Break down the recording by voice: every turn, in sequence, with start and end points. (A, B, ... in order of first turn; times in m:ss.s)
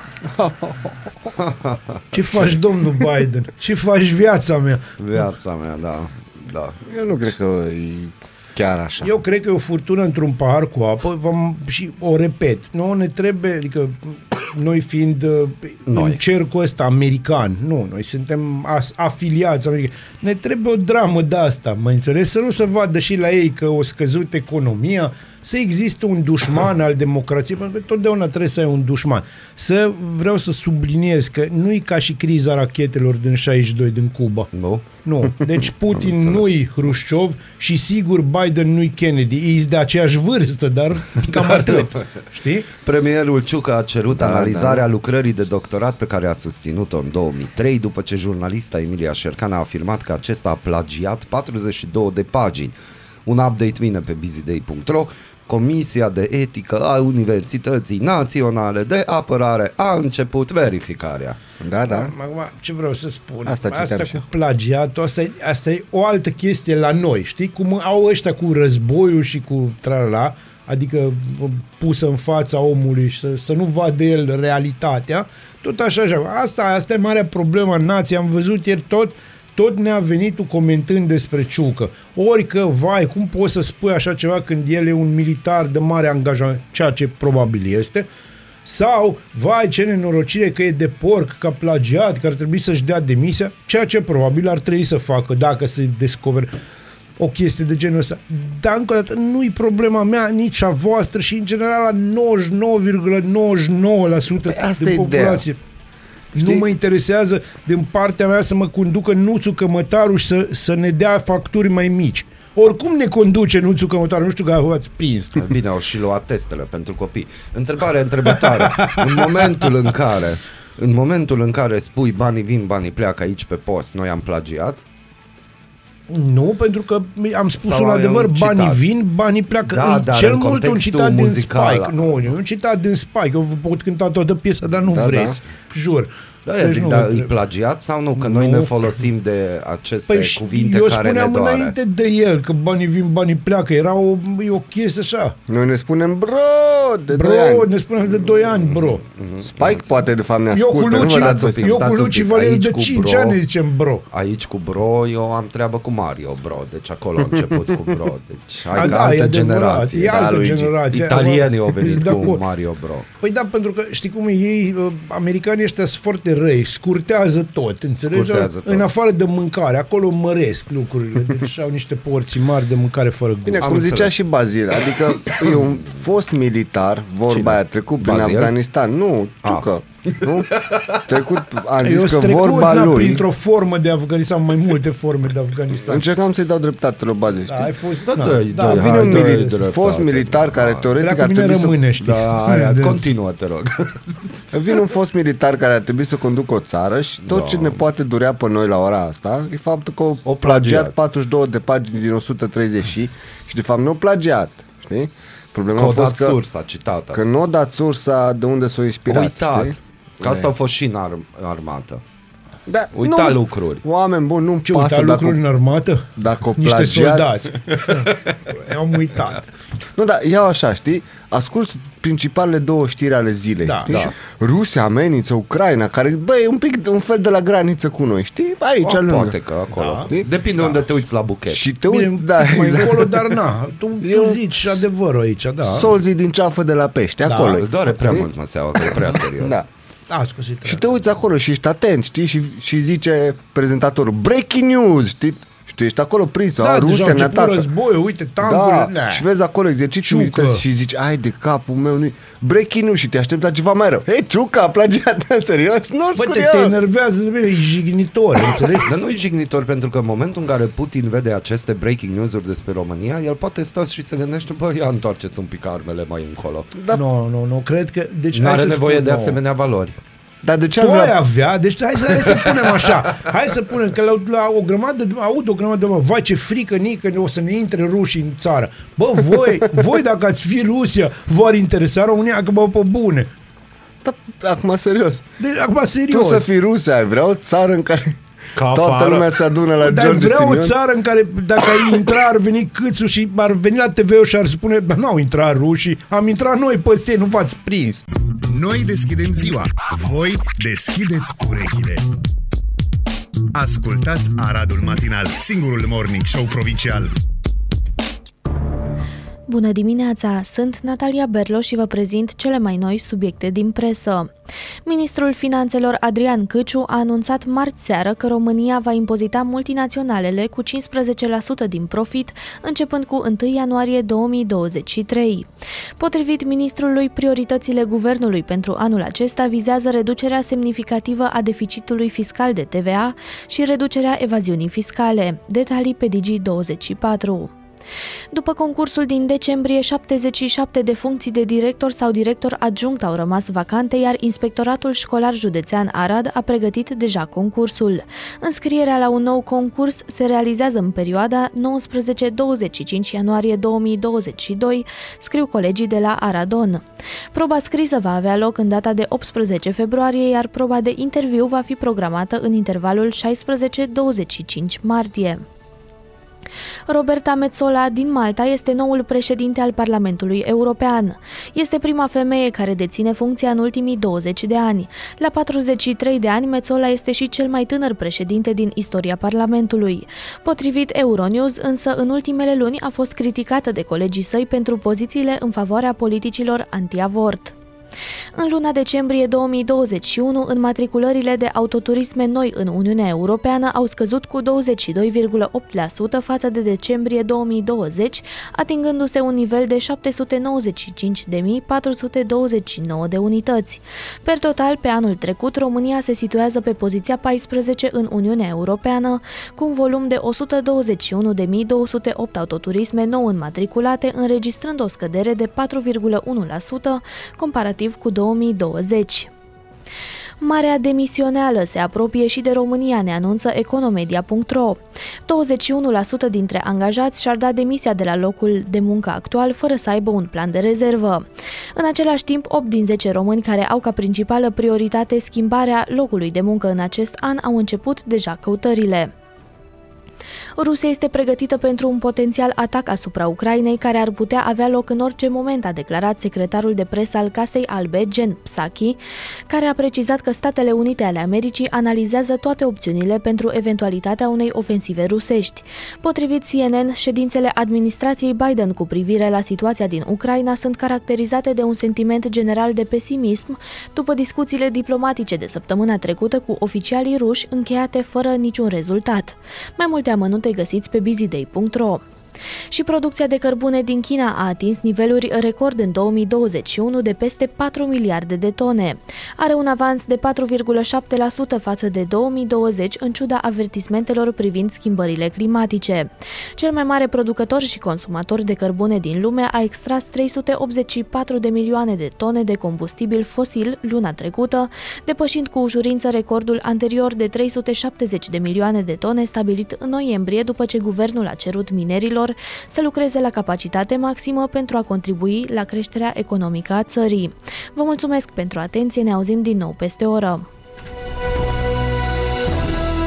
0:00.2-0:01.2 A
0:01.4-0:02.5 B
0:02.1-0:04.9 C
0:05.0-0:06.8 B
0:06.9-0:09.1 A
0:09.0-0:34.5 C
0:15.9-0:16.2 B
0:34.5-0:34.8 B
0:35.0-0:42.7 C
0:41.2-0:42.1 B
0:42.7-0:52.7 B
0:44.1-0:44.8 A
0:53.2-1:01.4 B
1:01.6-1:02.1 A
1:01.9-1:28.1 C
1:03.4-1:04.2 A
1:28.6-1:36.5 C
1:37.2-1:45.6 C
1:44.4-1:45.4 A
1:46.3-1:55.5 C
1:46.4-1:46.6 A
1:55.4-2:04.8 B
1:58.3-1:59.5 C
2:06.1-2:17.3 C
2:07.6-2:08.8 B
2:09.6-2:12.2 B
2:14.8-2:15.4 A
2:16.4-2:21.7 B
2:18.2-2:18.7 C
2:20.1-2:25.4 C
2:25.5-2:27.7 A
2:27.1-2:29.0 C
2:28.4-2:29.9 B
2:29.4-2:31.8 A
2:30.5-2:34.0 C
2:30.9-2:33.4 B
2:34.1-2:40.2 B
2:37.4-2:37.7 A
2:38.7-2:39.1 A
2:38.7-2:42.4 C
2:40.1-2:40.7 A
2:40.9-2:43.1 B
2:43.2-2:53.9 C
2:48.0-2:48.9 B
2:53.4-3:00.5 A
2:53.6-2:54.1 B
2:54.8-2:55.8 B
2:57.3-2:58.5 B
2:59.4-3:01.0 B
3:01.0-3:03.3 A
3:01.8-3:06.1 C
3:05.7-3:07.7 A
3:07.5-3:09.6 C
3:08.0-3:10.8 B
3:08.6-3:11.8 A
3:11.0-3:13.0 C
3:12.0-3:14.5 B
3:14.5-3:26.4 A
3:17.3-3:17.8 B
3:20.2-3:20.9 B
3:25.8-3:27.2 B
3:27.1-3:30.5 A
3:29.1-3:32.0 B
3:32.7-3:35.4 A
3:32.9-3:33.8 B
3:34.6-3:39.4 C
3:36.2-3:37.4 A
3:39.9-3:49.4 A
3:43.6-3:43.9 C
3:43.9-3:44.1 B
3:48.8-3:51.7 B
3:49.7-3:50.1 C
3:50.0-3:50.3 A
3:51.5-3:53.4 A
3:51.9-3:55.9 C
3:54.0-3:54.7 A
3:55.6-3:59.7 A
3:57.2-3:57.6 C
3:57.4-3:59.6 B
4:00.1-4:01.0 C
4:00.6-4:07.6 A
4:06.6-4:09.3 C
4:08.4-4:16.8 A
4:10.0-4:10.6 C
4:16.1-4:18.9 C
4:18.8-4:26.7 B
4:26.7-4:27.0 A
4:26.9-4:29.4 C
4:28.3-4:30.0 B
4:30.4-4:31.2 A
4:30.8-4:43.3 C
4:44.0-4:45.2 A
4:45.4-4:46.4 C
4:46.1-4:50.8 A
4:48.6-4:58.0 C
4:58.5-5:02.0 D
5:03.5-5:07.1 D
5:09.5-5:14.3 E
5:14.8-5:37.5 E
5:38.3-6:05.4 E
6:06.9-6:27.5 E
6:28.4-6:59.3 E
7:00.4-7:19.1 E
7:20.6-7:52.0 E
7:52.7-8:30.4 E